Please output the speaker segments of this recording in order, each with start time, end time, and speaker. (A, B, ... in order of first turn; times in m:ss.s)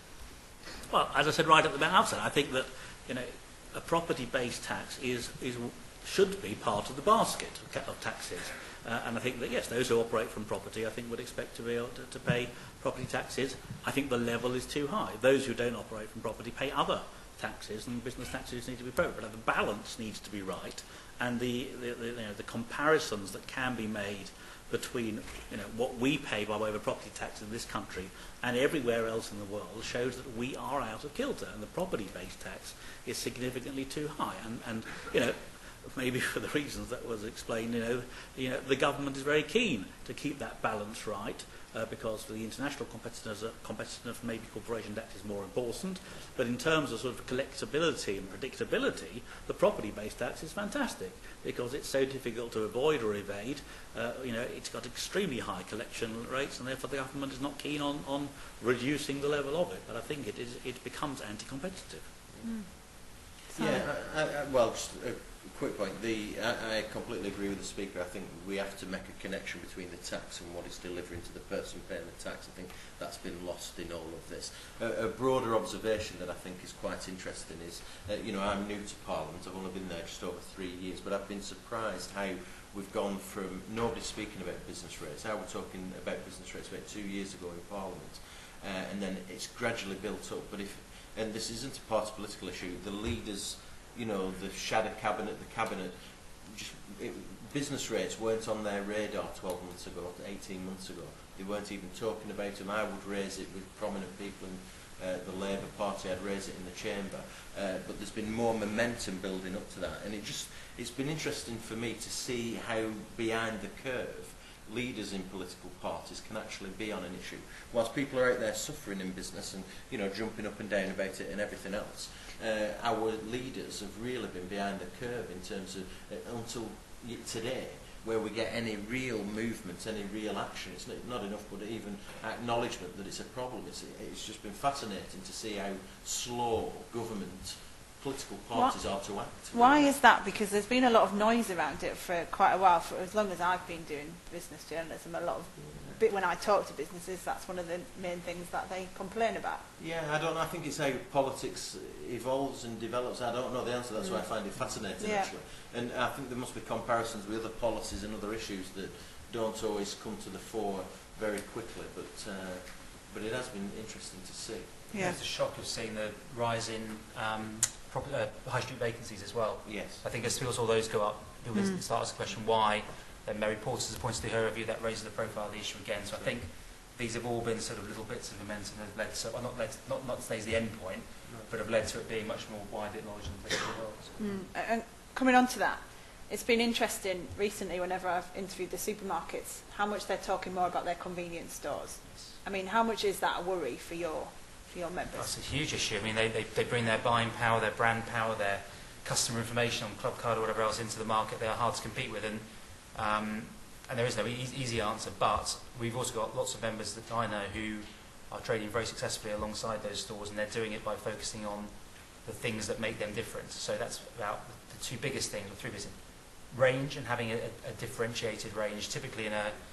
0:00.9-1:02.1 A
1:02.4-1:02.8 B
1:02.4-1:03.9 C
1:03.6-2:20.0 B
2:18.5-2:18.8 C
2:19.5-2:29.7 C
2:25.7-2:26.0 B
2:29.8-2:44.8 B
2:34.0-2:34.3 C
2:35.0-2:35.3 C
2:44.9-2:45.2 C
2:44.9-3:04.2 D
2:49.6-2:50.0 B
2:51.6-2:51.8 C
3:04.2-3:15.3 C
3:12.1-3:12.3 D
3:15.1-3:39.6 D